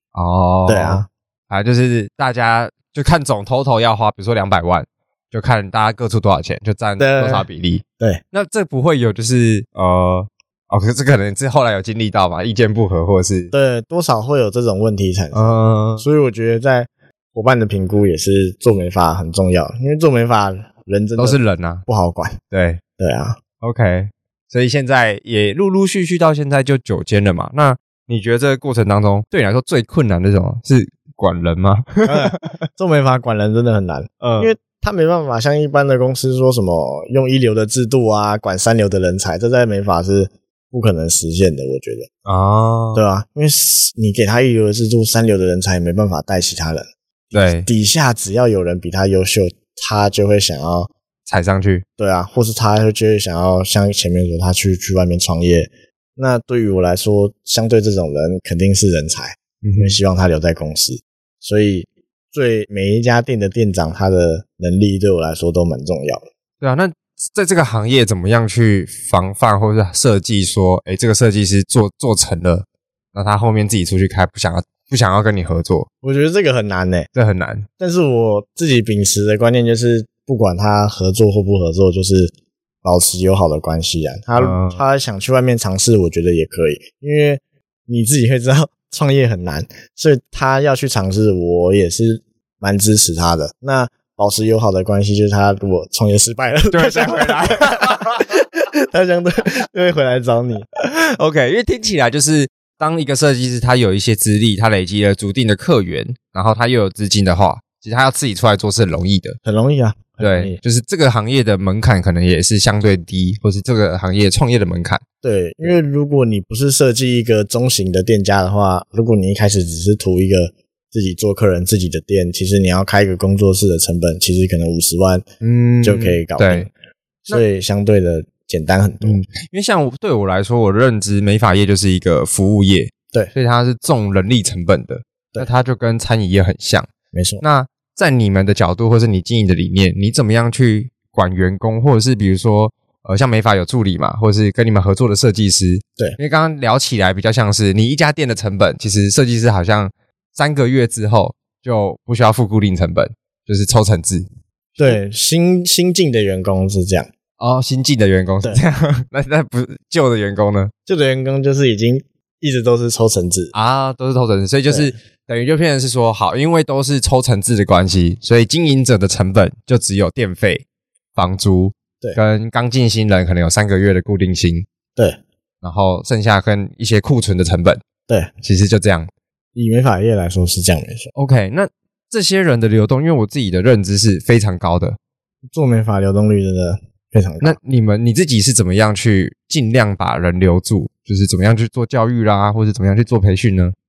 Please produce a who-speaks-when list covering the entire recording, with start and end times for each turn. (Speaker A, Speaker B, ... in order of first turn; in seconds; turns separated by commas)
Speaker A: 0.1-13.5, Speaker B: 0.7-1.1, Speaker B: 7.0-7.5, Speaker B: 13.5-22.4, Speaker A: 15.3-16.1, Speaker A: 21.2-21.8, Speaker A: 22.5-22.8, Speaker B: 23.0-23.4, Speaker A: 23.6-32.6, Speaker B: 32.1-42.1, Speaker A: 34.2-34.5, Speaker A: 42.2-43.0, Speaker B: 42.9-50.9, Speaker A: 47.3-47.7, Speaker A: 51.3-51.9, Speaker B: 52.0-66.2, Speaker A: 59.6-60.0, Speaker A: 66.6-75.9, Speaker B: 76.0-77.1, Speaker A: 77.1-77.7, Speaker B: 77.8-82.3, Speaker B: 82.8-100.7, Speaker A: 84.4-84.8, Speaker A: 96.7-98.3, Speaker A: 100.8-109.4, Speaker B: 109.5-110.6, Speaker A: 110.2-115.0, Speaker B: 115.2-125.3, Speaker A: 125.4-126.7, Speaker B: 125.8-126.7, Speaker B: 127.3-129.2, Speaker A: 129.0-136.9, Speaker B: 137.1-137.4, Speaker A: 137.4-154.3, Speaker B: 154.8-157.1, Speaker A: 157.4-160.7, Speaker B: 160.9-163.5, Speaker A: 163.5-174.7, Speaker A: 175.6-177.8, Speaker A: 178.4-179.1, Speaker B: 179.6-181.1, Speaker A: 181.2-185.0, Speaker B: 185.5-187.6, Speaker A: 187.4-193.8